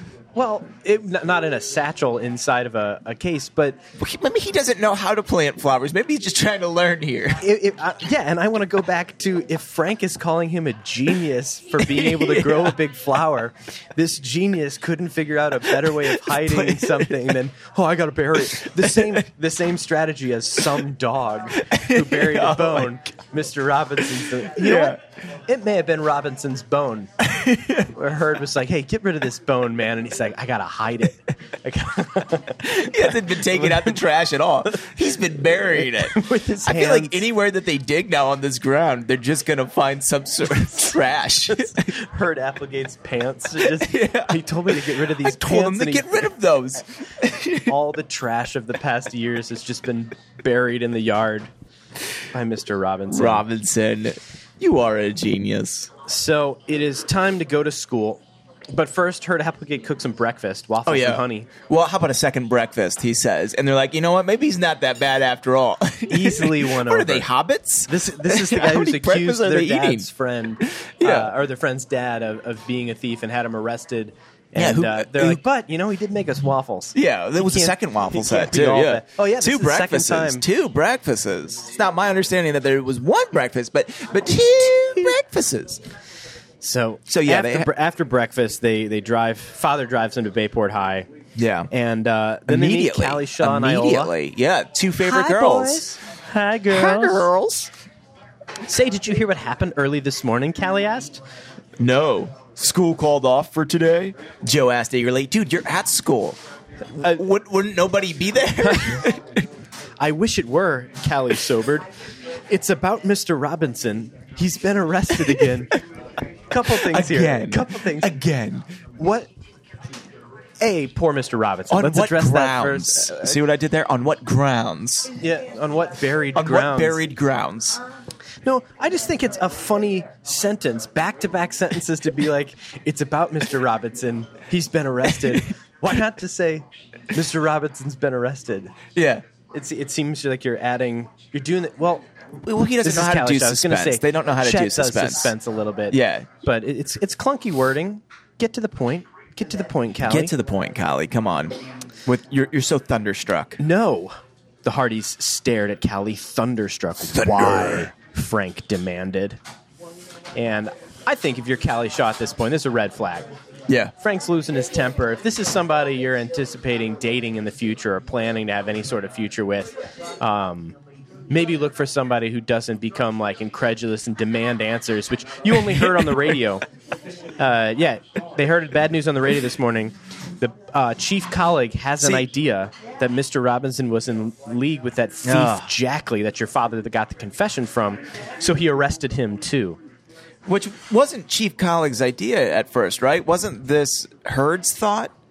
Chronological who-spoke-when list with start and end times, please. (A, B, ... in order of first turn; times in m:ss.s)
0:00.4-0:03.8 A
0:04.0-0:07.4 B
0:07.4-0:27.1 A
0:11.8-0:12.8 B
0:15.7-0:17.4 B
0:18.5-0:19.2 B
0:21.6-0:23.0 B
0:24.2-0:25.0 B
0:27.2-0:27.9 B
0:27.8-0:34.0 A
0:32.6-0:41.9 B
0:35.7-0:37.2 A
0:41.5-0:46.2 A
0:43.6-0:47.7 B
0:47.6-0:51.5 A
0:52.3-0:53.4 A
0:53.1-0:55.9 B
0:56.0-1:01.5 A
1:00.8-1:10.1 B
1:06.1-1:07.3 A
1:07.9-1:20.4 A
1:10.7-1:11.3 B
1:14.6-1:15.4 B
1:17.0-1:25.8 B
1:26.6-1:31.1 A
1:27.1-1:27.7 B
1:31.4-1:31.7 B
1:31.7-1:34.1 A
1:32.5-1:36.0 B
1:35.0-1:37.3 A
1:36.7-1:37.7 B
1:38.7-1:41.2 A
1:41.8-1:46.4 B
1:46.9-1:49.5 B
1:48.6-1:49.0 A
1:50.0-1:51.9 A
1:52.5-1:55.8 A
1:56.5-1:58.1 A
1:56.6-1:58.6 B
1:59.0-1:59.3 A
2:00.6-2:03.4 A
2:01.7-2:05.1 B
2:05.2-2:07.0 A
2:06.3-2:07.8 B
2:08.4-2:18.8 A
2:15.1-2:15.4 B
2:19.0-2:19.2 B
2:19.5-2:22.1 A
2:22.4-2:25.3 B
2:22.8-2:30.3 A
2:25.9-2:26.3 B
2:30.0-2:33.6 B
2:33.6-2:39.4 A
2:37.1-2:37.9 B
2:40.4-2:43.3 A
2:43.7-2:43.9 B
2:44.0-2:50.8 A
2:51.3-2:56.6 A
2:55.7-2:56.2 B
2:57.4-3:09.8 A
3:02.0-3:02.3 B
3:05.2-3:05.7 B
3:10.5-3:15.1 B